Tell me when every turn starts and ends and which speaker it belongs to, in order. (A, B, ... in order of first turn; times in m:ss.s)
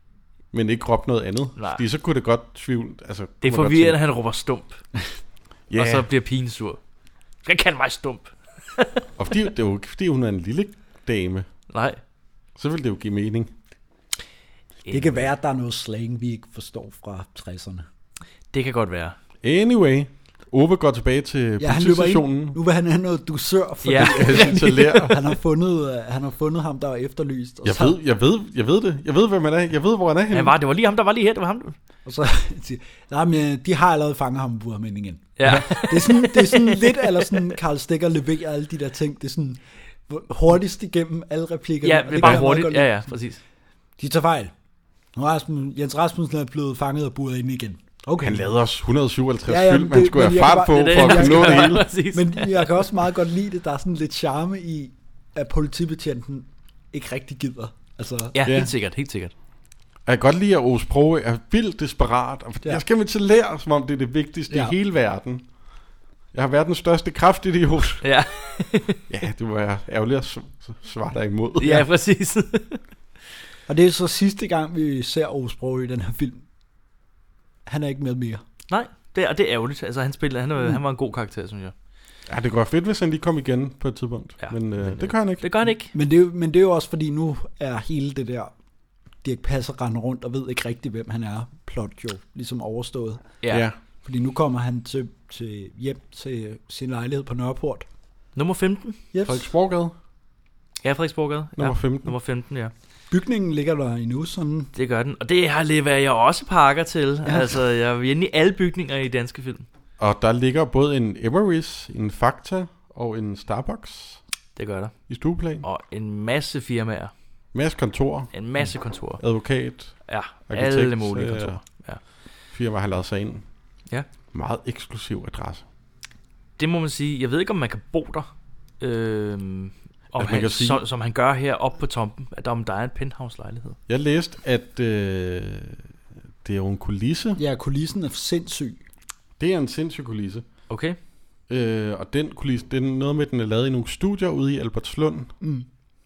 0:00.5-0:04.0 A
0:01.6-0:01.8 B
0:03.4-0:04.8 B
0:05.7-0:06.1 A
0:05.7-0:06.8 B
0:07.4-0:09.0 B
0:09.2-0:11.5 A
0:11.7-0:12.0 B
0:12.6-0:13.5 A
0:14.9-0:15.2 B
0:14.9-0:17.8 C
0:18.5-0:19.2 B
0:19.4-0:22.6 A
0:21.6-0:28.0 C
0:23.8-0:25.1 B
0:24.0-0:25.2 A
0:27.6-0:30.5 A
0:30.3-0:31.8 B
0:32.0-0:43.1 C
0:35.4-0:37.3 B
0:41.8-0:43.4 B
0:44.0-0:44.5 C
0:45.1-0:48.5 C
0:48.2-0:51.9 A
0:49.5-0:58.4 C
0:50.7-0:52.7 B
0:58.3-0:59.3 B
0:58.4-0:58.7 A
1:00.0-1:05.5 A
1:04.5-1:04.7 C
1:06.3-1:08.1 A
1:08.0-1:09.0 B
1:09.1-1:11.8 A
1:11.6-1:12.8 B
1:13.7-1:16.4 C
1:17.7-1:18.4 C
1:18.7-1:21.7 B
1:22.3-1:25.5 A
1:24.4-1:25.9 B
1:25.9-1:28.5 C
1:29.2-1:33.3 C
1:33.5-1:33.8 A
1:34.0-1:37.9 C
1:38.4-1:39.0 B
1:39.1-1:39.5 C
1:39.2-1:39.9 A
1:40.8-1:42.7 B
1:41.6-1:42.1 A
1:43.1-1:44.7 C
1:44.7-1:49.6 B
1:47.2-1:47.6 C
1:50.0-1:54.2 A
1:54.6-1:57.1 B
1:55.1-1:55.6 A
1:57.5-2:01.6 A
1:58.3-1:59.2 B
2:00.0-2:02.0 B
2:02.5-2:03.4 A
2:04.3-2:05.6 A
2:06.6-2:08.3 B
2:08.8-2:13.8 B
2:10.1-2:10.8 A
2:13.9-2:15.8 A
2:16.4-2:17.4 A
2:17.4-2:18.8 C
2:19.4-2:20.4 A
2:20.7-2:21.0 B
2:21.5-2:25.3 A
2:25.4-2:25.6 C